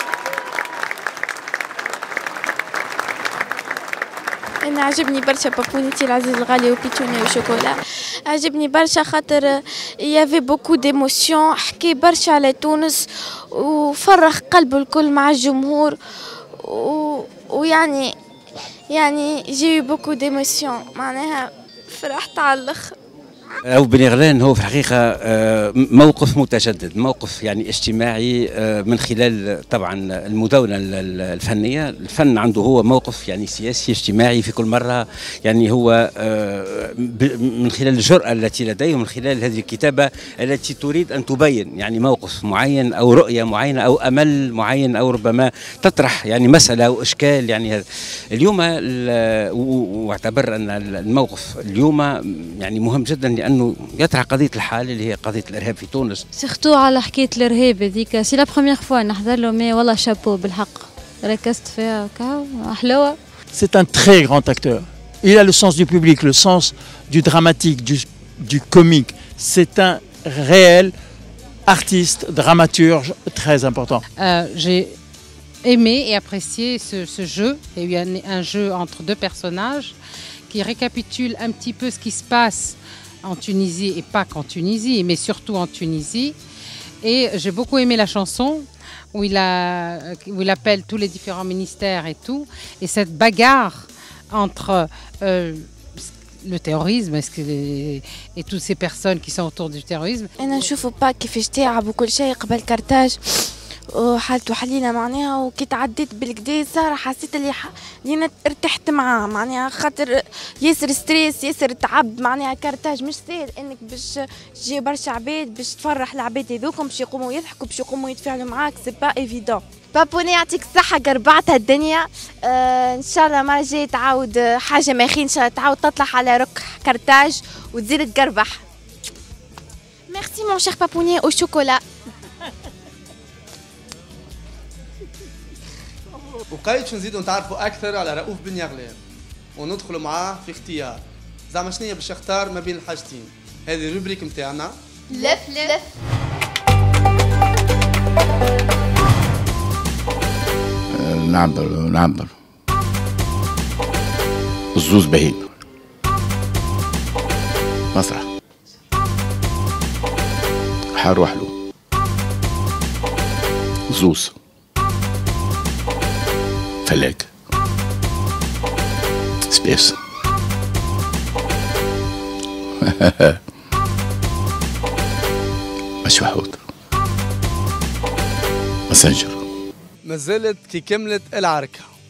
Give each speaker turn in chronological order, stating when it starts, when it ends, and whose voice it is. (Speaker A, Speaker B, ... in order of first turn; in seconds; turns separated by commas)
Speaker A: 4.6-15.9, Speaker A: 16.6-18.1, Speaker A: 18.9-22.9, Speaker B: 23.7-47.8, Speaker B: 48.3-56.2, Speaker C: 56.4-63.2, Speaker D: 63.5-70.9, Speaker D: 71.7-74.0, Speaker E: 74.2-75.0, Speaker E: 75.6-80.0, Speaker E: 80.5-86.4, Speaker E: 87.0-95.7, Speaker E: 96.4-100.3, Speaker F: 100.4-128.6, Speaker A: 121.0-121.5, Speaker A: 130.1-131.8, Speaker G: 136.5-139.0, Speaker G: 139.6-144.8, Speaker A: 145.1-145.8, Speaker F: 145.1-145.8, Speaker H: 150.9-152.3, Speaker H: 154.8-155.5, Speaker H: 157.9-158.3, Speaker H: 160.9-161.5, Speaker H: 163.9-164.3, Speaker H: 166.8-167.3, Speaker H: 169.5-170.0, Speaker H: 172.8-173.4, Speaker H: 176.0-176.6, Speaker H: 178.9-179.4, Speaker G: 180.1-181.9